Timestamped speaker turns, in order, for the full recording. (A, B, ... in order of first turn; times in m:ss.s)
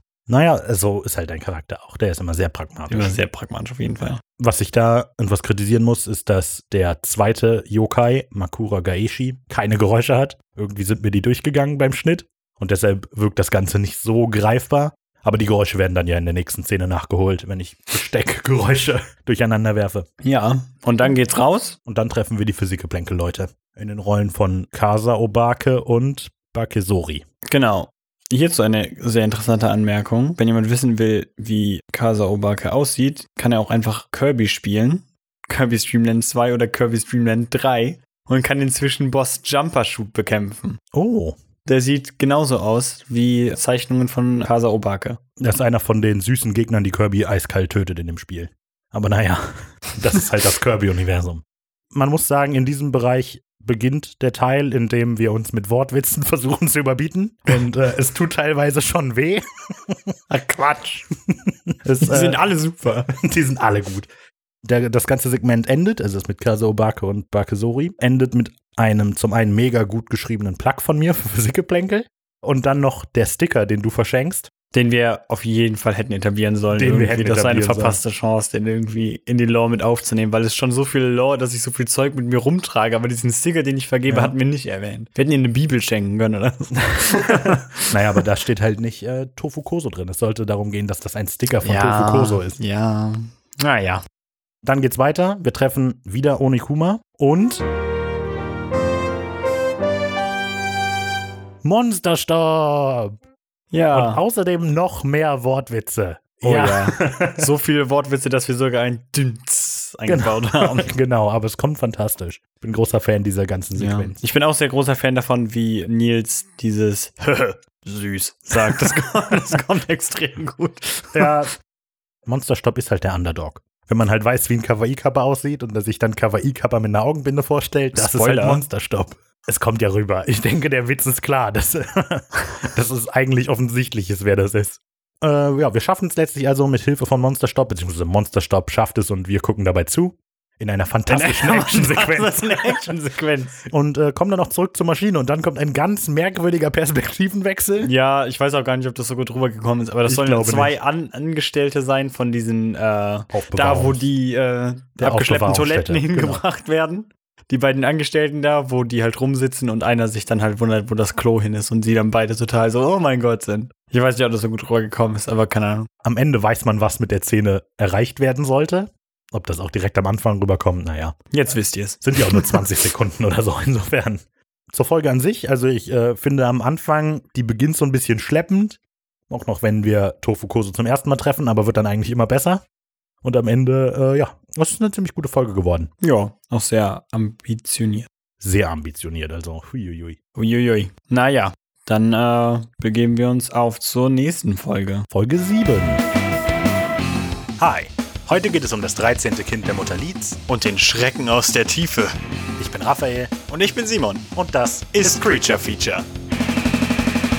0:00.3-0:03.1 A
0:02.9-0:04.2 B
0:04.4-0:20.1 A
0:20.2-0:21.8 B
0:21.8-0:27.2 A
0:27.5-0:40.8 B
0:40.9-0:41.4 A
0:41.6-0:45.2 B
0:45.4-1:00.0 A
1:00.3-1:01.1 B
1:01.3-1:02.4 A
1:01.8-1:03.1 B
1:03.1-1:04.1 A
1:04.6-1:14.5 A
1:14.7-1:28.2 B
1:16.7-1:18.0 A
1:24.1-1:24.3 A
1:27.0-1:32.6 A
1:31.6-1:34.0 B
1:34.6-1:37.6 A
1:41.6-1:43.1 A
1:43.7-1:44.2 B
1:43.9-1:47.4 A
1:46.4-1:50.9 B
1:50.1-1:54.2 A
1:53.8-2:01.4 B
2:01.1-2:01.5 A
2:02.2-2:22.9 A
2:07.9-2:08.6 B
2:21.1-2:23.6 B
2:23.7-2:27.9 A
2:27.8-2:45.9 B
2:30.0-2:30.7 A
2:33.3-2:34.0 A
2:35.0-2:36.4 A
2:46.0-2:51.2 A
2:51.3-2:52.6 B
2:52.0-3:02.6 A
3:03.2-3:05.9 A
3:06.0-3:08.1 B
3:08.4-3:10.2 A
3:10.4-3:15.1 B
3:15.1-3:16.0 A
3:17.6-3:20.4 A
3:20.5-3:22.1 B
3:22.6-3:23.3 A
3:23.5-3:24.3 B
3:24.3-3:25.9 A
3:24.9-3:26.0 B